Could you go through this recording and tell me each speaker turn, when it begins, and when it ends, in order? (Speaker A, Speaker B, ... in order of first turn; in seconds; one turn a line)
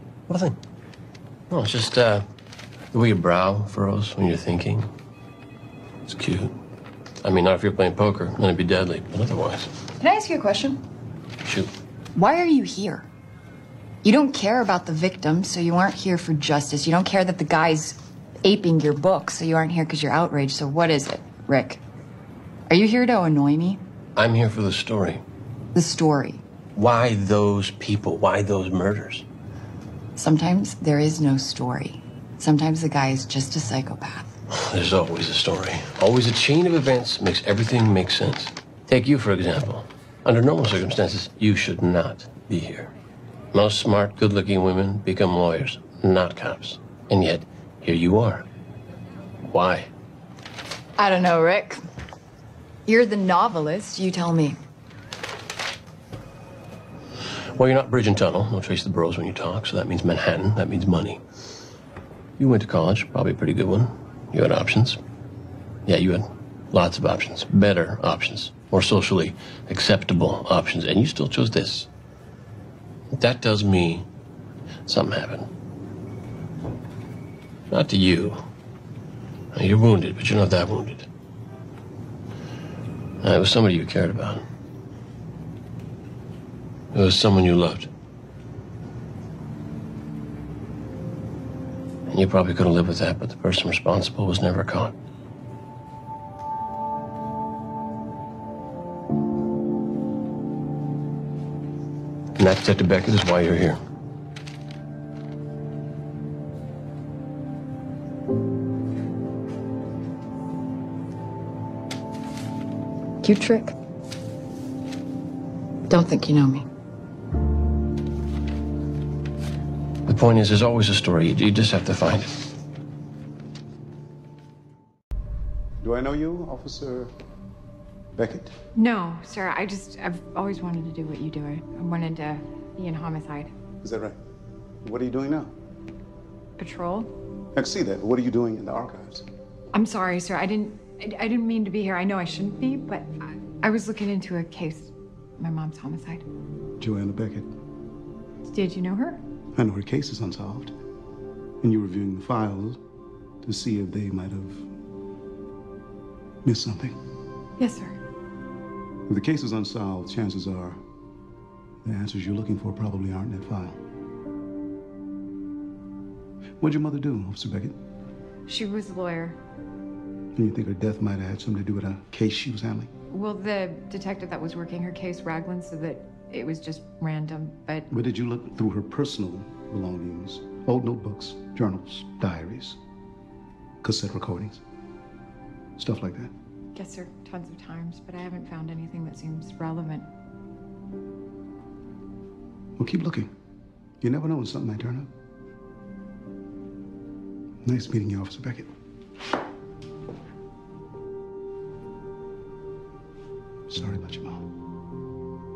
Speaker A: 0.3-0.6
Speaker A: 1.5-2.2
Speaker A: 2.9-4.9
Speaker A: 6.0-6.5
Speaker A: 7.2-9.8
Speaker B: 10.0-10.8
Speaker A: 11.4-11.7
Speaker B: 12.1-13.1
Speaker B: 14.0-21.8
Speaker B: 22.7-23.8
Speaker A: 24.1-25.2
Speaker B: 25.7-26.4
Speaker A: 26.7-29.2
Speaker B: 30.2-34.3
Speaker A: 34.5-42.9
Speaker A: 43.5-48.5
Speaker A: 49.4-49.9
Speaker B: 51.0-51.8
Speaker B: 52.9-54.5
Speaker A: 57.5-61.2
Speaker A: 62.4-65.0
Speaker A: 65.8-71.9
Speaker A: 73.1-74.1
Speaker A: 74.8-75.5
Speaker A: 77.7-78.4
Speaker A: 79.5-81.1
Speaker A: 83.2-84.4
Speaker A: 86.9-87.9
Speaker A: 92.1-94.9
Speaker A: 102.4-103.8
Speaker B: 113.2-113.7
Speaker B: 115.9-116.7
Speaker A: 120.0-122.4
Speaker C: 125.8-127.1
Speaker C: 128.1-128.6
Speaker D: 128.7-133.5
Speaker C: 133.8-134.2
Speaker C: 134.8-135.5
Speaker D: 136.6-137.1
Speaker C: 137.5-139.3
Speaker D: 139.7-146.2
Speaker C: 146.8-147.5
Speaker D: 148.4-149.2
Speaker C: 149.6-150.7
Speaker C: 151.6-152.8
Speaker C: 153.4-154.7
Speaker C: 156.4-157.0
Speaker D: 157.6-158.0
Speaker C: 159.1-160.8
Speaker C: 161.8-163.8
Speaker C: 166.6-167.8
Speaker D: 168.5-169.4
Speaker C: 170.3-172.9
Speaker D: 173.1-177.9
Speaker C: 177.9-182.8
Speaker C: 183.8-184.6
Speaker C: 185.8-186.3
Speaker D: 186.7-190.1
Speaker C: 192.8-193.3
Speaker C: 194.0-195.1
Speaker C: 197.6-198.7
Speaker C: 203.7-204.4